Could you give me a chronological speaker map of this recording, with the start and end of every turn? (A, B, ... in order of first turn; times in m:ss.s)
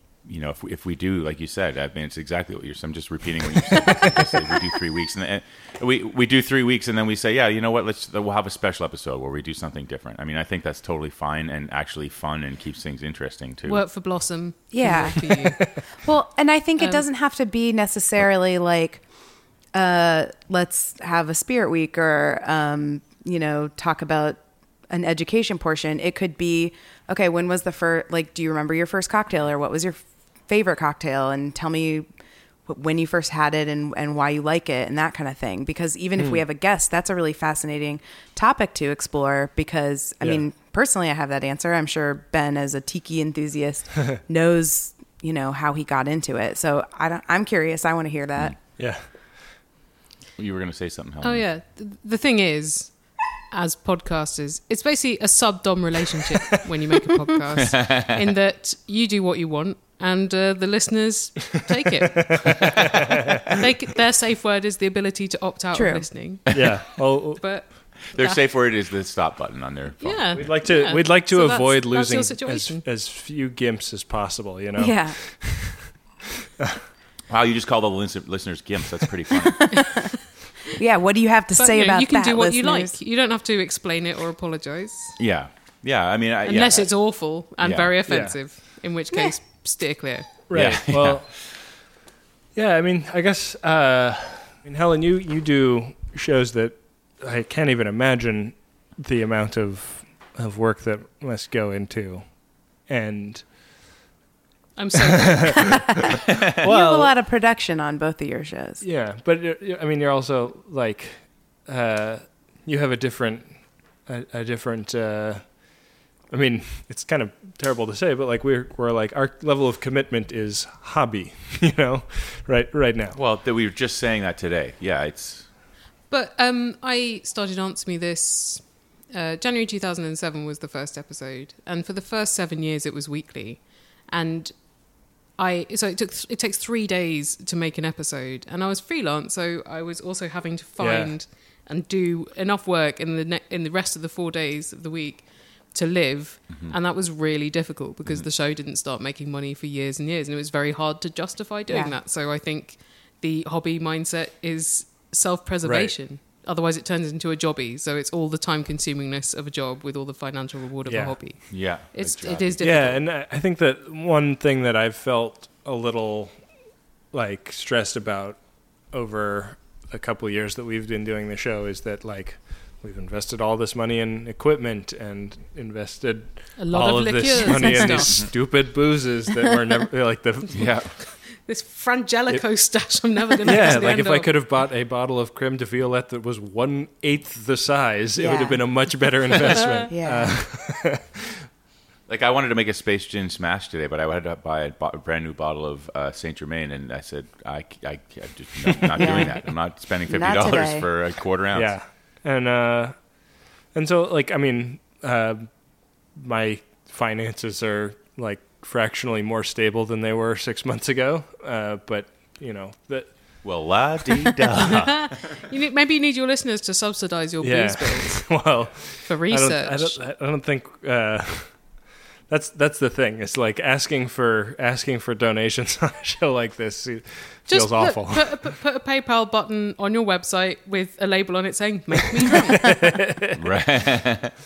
0:00.2-0:13.8 A
0:13.6-0:15.8 B
0:14.7-0:15.4 C
0:15.2-0:15.7 D
0:16.0-0:19.0 C
0:16.8-0:17.0 B
0:19.7-0:32.1 C
0:32.7-0:48.6 C
0:48.8-0:49.0 D
0:50.4-0:51.4 A
0:51.2-1:06.7 B
0:57.7-0:58.1 A
1:02.2-1:03.4 D
1:05.7-1:06.1 C
1:06.5-1:07.4 D
1:07.4-1:08.4 B
1:08.1-1:10.5 A
1:10.0-1:12.8 B
1:10.3-1:15.9 D
1:14.8-1:15.2 C
1:17.3-1:19.9 A
1:19.4-1:20.1 C
1:20.7-1:22.9 C
1:21.6-1:25.2 B
1:25.2-1:26.9 A
1:26.4-1:30.3 B
1:27.6-1:27.9 A
1:28.1-1:28.4 D
1:30.5-1:31.4 D
1:30.5-1:31.3 A
1:32.5-1:43.4 D
1:44.8-1:45.9 B
1:46.6-1:48.8 C
1:46.6-1:47.1 D
1:48.8-1:55.7 D
1:56.3-2:03.2 D
2:03.1-2:05.4 A
2:06.1-2:14.5 B
2:15.4-2:43.0 B
2:20.8-2:21.1 D
2:31.7-2:32.0 C
2:35.6-2:35.9 D
2:40.8-2:41.2 D
2:41.5-2:43.0 A
2:42.6-2:46.4 D
2:47.1-2:48.4 D
2:48.9-3:00.7 D
2:56.6-2:58.3 B
2:58.0-2:58.3 A
3:00.5-3:00.9 A
3:01.0-3:04.3 B
3:03.4-3:11.3 D
3:08.2-3:08.6 C
3:09.6-3:09.8 B
3:09.9-3:10.4 C
3:12.1-3:21.7 A
3:18.9-3:19.2 D
3:19.0-3:19.4 C
3:20.1-3:20.9 C
3:21.5-3:23.0 D
3:23.7-3:25.5 D
3:26.1-3:33.1 D
3:33.4-3:35.3 A
3:34.6-3:40.0 B
3:37.4-3:41.6 D
3:42.3-3:48.5 D
3:47.5-3:52.8 B
3:52.4-3:53.4 D
3:53.3-3:54.3 A